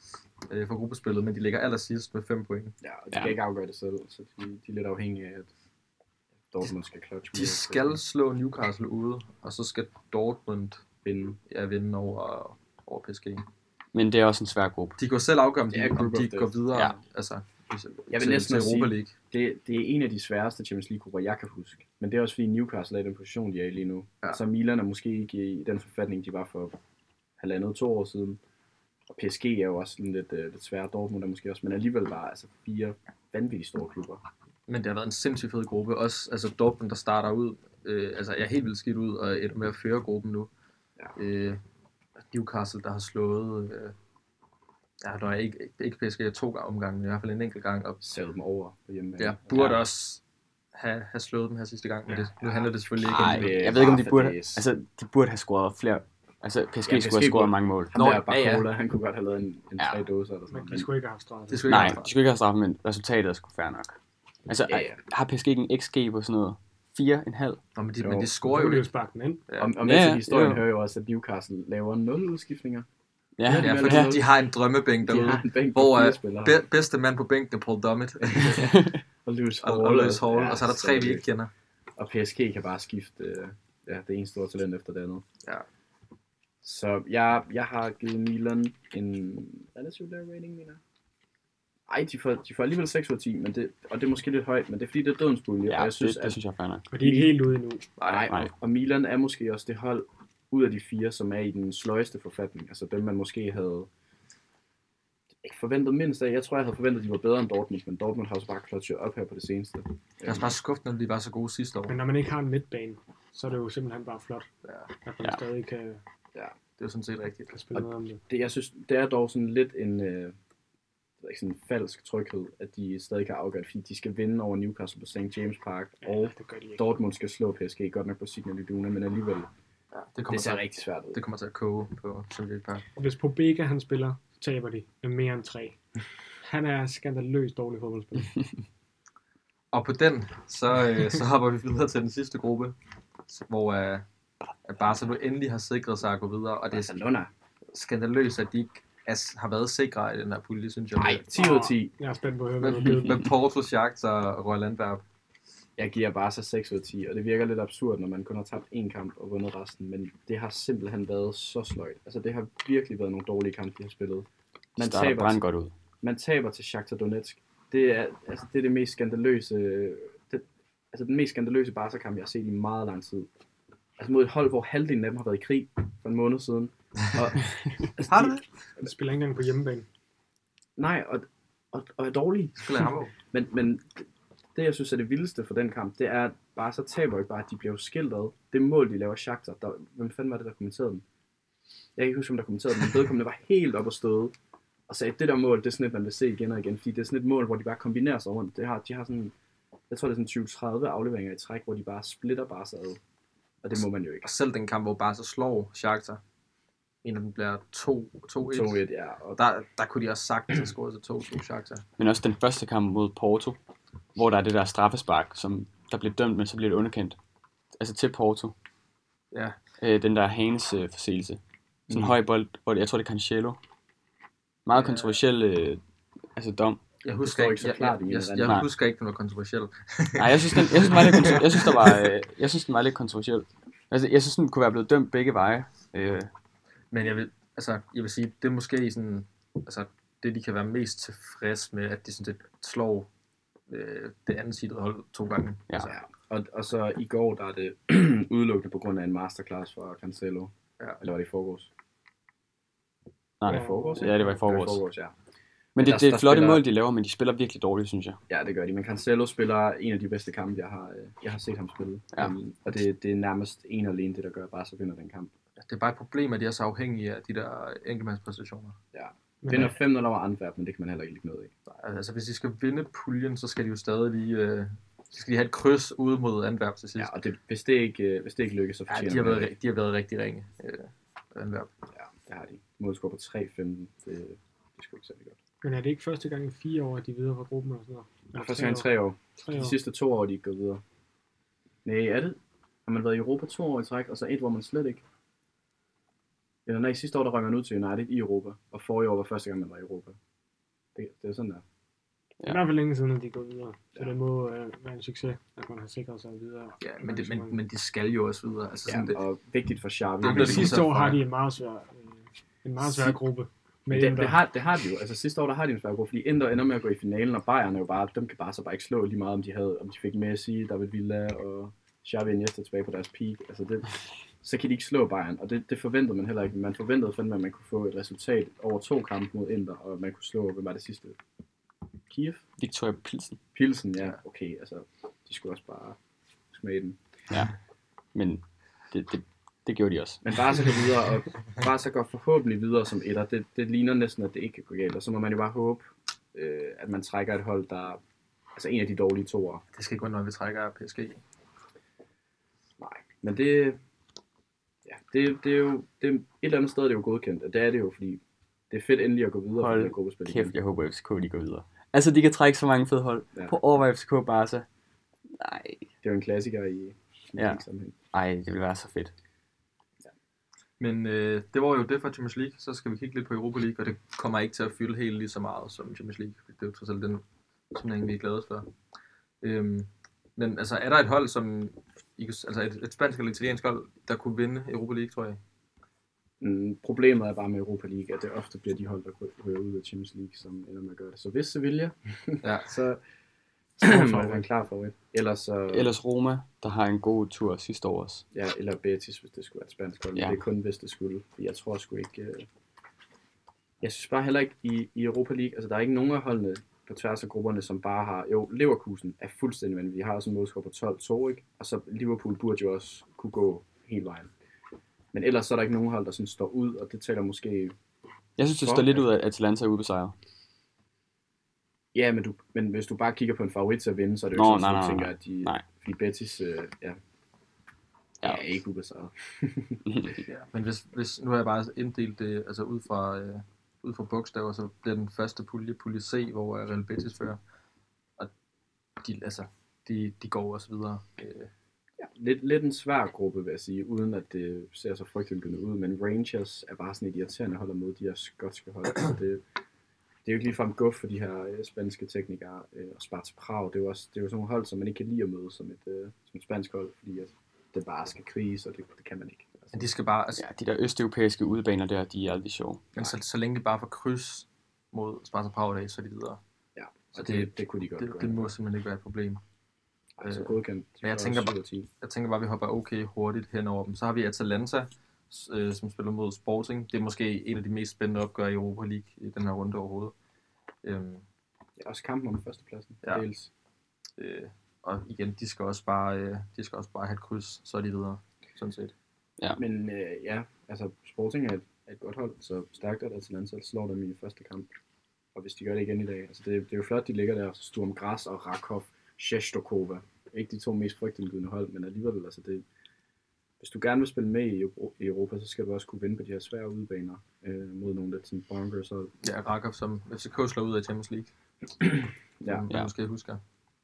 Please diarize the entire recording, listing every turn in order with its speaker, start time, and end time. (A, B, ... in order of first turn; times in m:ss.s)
0:00.5-0:02.7 A
0:02.8-0:05.5 B
0:06.5-0:08.0 B
0:07.3-0:10.8 A
0:11.0-0:11.4 B
0:11.5-0:13.4 A
0:13.9-0:15.0 C
0:15.0-0:19.1 A
0:15.7-0:16.6 B
0:18.1-0:26.8 B
0:27.4-0:28.4 B
0:29.1-0:34.2 B
0:34.7-0:40.5 A
0:41.1-0:41.6 A
0:42.3-0:43.9 A
0:45.0-0:48.0 A
0:48.0-0:49.4 B
0:49.2-0:50.2 A
0:49.5-0:49.8 C
0:50.7-0:53.7 A
0:52.4-0:54.7 B
0:53.0-0:57.9 C
0:56.8-1:00.9 B
0:57.9-0:58.7 A
1:00.5-1:02.0 D
1:01.5-1:02.1 A
1:01.7-1:04.0 C
1:04.5-1:07.6 C
1:04.7-1:05.0 B
1:07.8-1:08.9 A
1:08.0-1:08.3 B
1:08.4-1:09.4 D
1:09.5-1:09.7 A
1:09.6-1:12.9 B
1:09.8-1:10.6 C
1:13.4-1:14.2 C
1:13.4-1:14.3 B
1:13.6-1:18.8 A
1:15.0-1:16.6 B
1:18.2-1:21.2 B
1:18.7-1:19.0 C
1:19.6-1:21.5 A
1:22.0-1:25.2 B
1:26.6-1:30.8 B
1:31.9-1:36.4 B
1:35.7-1:36.9 C
1:36.9-1:37.9 D
1:36.9-1:37.3 B
1:38.0-1:38.3 A
1:38.0-1:43.9 B
1:45.4-1:50.5 B
1:50.2-1:52.0 A
1:51.9-1:54.5 D
1:54.6-1:54.9 A
1:55.0-1:56.0 D
1:56.8-1:57.5 A
1:57.5-1:58.2 D
1:57.7-2:00.4 B
2:01.2-2:09.5 B
2:06.0-2:06.9 D
2:09.9-2:12.8 A
2:10.3-2:11.2 B
2:13.0-2:15.8 D
2:16.4-2:18.5 D
2:19.7-2:22.7 A
2:23.3-2:24.0 A
2:24.6-2:27.0 A
2:26.7-2:27.3 B
2:27.7-2:31.2 A
2:31.0-2:31.9 B
2:31.3-2:33.3 D
2:32.6-2:35.0 A
2:35.8-2:45.4 B
2:44.8-2:45.7 C
2:46.0-2:53.3 B
2:54.0-2:58.3 B
2:58.0-2:58.4 A
2:58.8-2:59.9 D
3:00.8-3:11.0 B
3:02.6-3:03.1 A
3:12.0-3:14.3 B
3:14.9-3:19.3 B
3:19.9-3:23.0 B
3:23.6-3:24.3 B
3:24.2-3:26.2 A
3:27.0-3:28.8 A
3:28.5-3:29.4 B
3:29.3-3:31.8 A
3:32.0-3:33.6 C
3:34.1-3:37.2 C
3:37.8-3:38.5 C
3:39.3-3:39.6 A
3:39.8-3:43.6 C
3:41.9-3:42.2 B
3:44.6-3:45.8 C
3:44.7-3:45.2 A
3:46.3-3:46.8 C
3:47.0-3:51.9 A
3:47.2-3:48.6 B
3:48.4-3:48.7 C
3:50.2-3:56.3 C
3:56.9-4:03.1 A
4:03.7-4:05.6 A
4:05.8-4:11.7 B
4:13.4-4:14.8 C
4:13.4-4:15.1 B
4:13.5-4:14.3 D
4:15.8-4:16.6 B
4:15.8-4:18.2 C
4:18.3-4:25.3 B
4:25.6-4:28.8 A
4:28.9-4:31.5 B
4:29.4-4:29.8 D
4:31.7-4:37.1 A
4:37.0-4:39.5 B
4:38.9-4:41.7 A
4:41.9-4:45.4 B
4:45.6-4:48.9 D
4:48.3-4:50.8 B
4:49.4-4:49.8 D
4:51.8-4:55.0 B
4:56.6-5:00.2 B
5:00.9-5:01.6 B
5:02.4-5:07.6 D
5:06.8-5:09.2 A
5:08.9-5:10.9 B
5:10.2-5:11.2 A
5:10.2-5:14.4 D
5:13.9-5:31.2 B
5:32.1-5:32.4 B
5:32.6-5:33.4 C
5:33.5-5:36.0 B
5:36.5-5:37.0 B
5:38.1-5:40.2 C
5:40.2-5:48.0 B
5:48.5-5:49.6 B
5:49.7-5:51.2 A
5:52.8-5:53.8 B
5:54.8-6:00.5 B
5:59.6-6:04.6 C
6:05.4-6:05.9 C
6:06.0-6:08.0 B
6:07.4-6:07.6 C
6:08.1-6:09.1 C
6:10.8-6:18.7 A
6:19.4-6:25.4 A
6:26.4-6:33.0 B
6:32.4-6:32.7 A
6:33.8-6:35.9 B
6:35.7-6:38.2 C
6:38.3-6:42.5 B
6:43.8-6:54.3 B
6:55.1-6:57.7 B
6:58.4-7:00.1 C
6:58.6-6:59.1 B
7:01.9-7:07.0 B
7:04.3-7:05.6 C
7:08.2-7:09.8 B
7:09.9-7:10.2 C
7:10.2-7:17.4 A
7:19.0-7:21.5 A
7:22.0-7:29.4 B
7:30.2-7:39.6 B
7:39.7-7:40.4 A
7:40.4-7:43.0 C
7:43.0-7:46.4 A
7:46.7-7:48.5 B
7:47.1-7:49.4 A
7:50.2-7:51.9 B
7:50.2-8:00.1 A
8:00.8-8:01.2 A
8:01.8-8:03.5 B
8:04.2-8:08.9 A
8:09.6-8:14.7 B
8:15.3-8:22.6 B
8:23.6-8:29.1 B
8:29.2-8:31.3 A
8:31.8-8:32.6 B
8:32.4-8:33.4 A